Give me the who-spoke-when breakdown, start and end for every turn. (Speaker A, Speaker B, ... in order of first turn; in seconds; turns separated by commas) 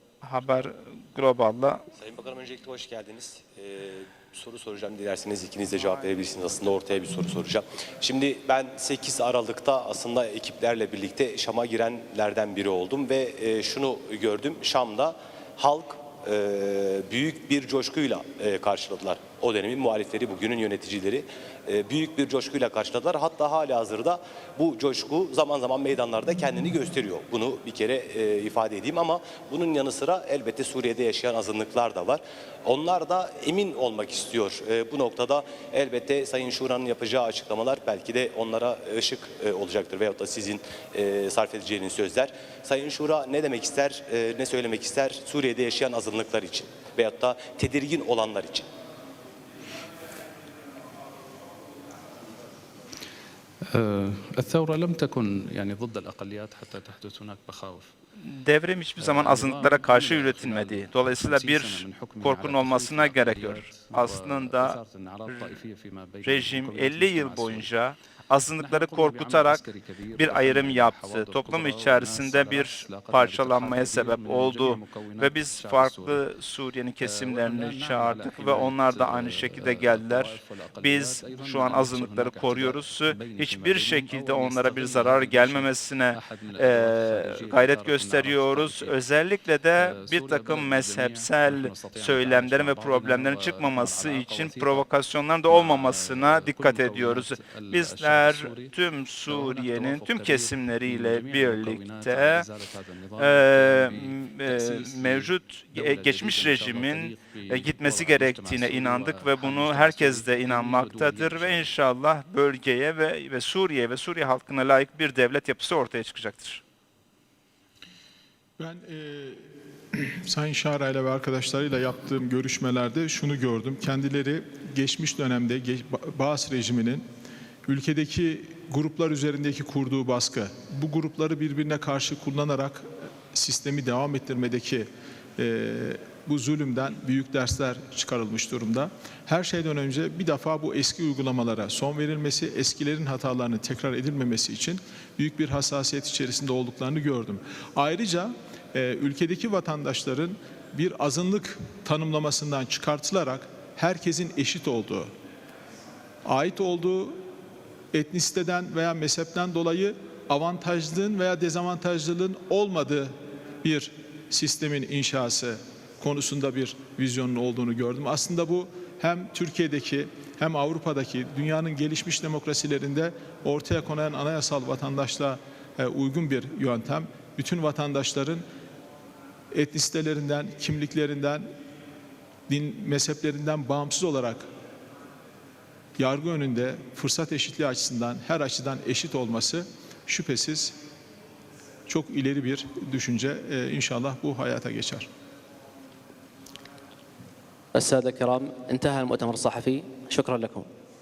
Speaker A: 0.2-1.8, Speaker B: 2.0-48.7, Speaker C: 53.6-57.9, Speaker A: 58.2-65.5, Speaker C: 59.0-67.7, Speaker A: 66.2-102.5, Speaker C: 68.7-76.1, Speaker C: 77.2-85.6, Speaker C: 86.3-88.9, Speaker C: 90.0-94.8, Speaker C: 95.5-98.7, Speaker C: 99.3-111.7, Speaker A: 103.2-116.6, Speaker D: 118.6-127.1, Speaker D: 127.7-155.1, Speaker D: 156.2-157.2, Speaker D: 157.9-178.4, Speaker D: 179.5-181.5, Speaker D: 182.5-184.5, Speaker D: 186.0-190.8, Speaker D: 191.9-195.1, Speaker E: 197.7-200.7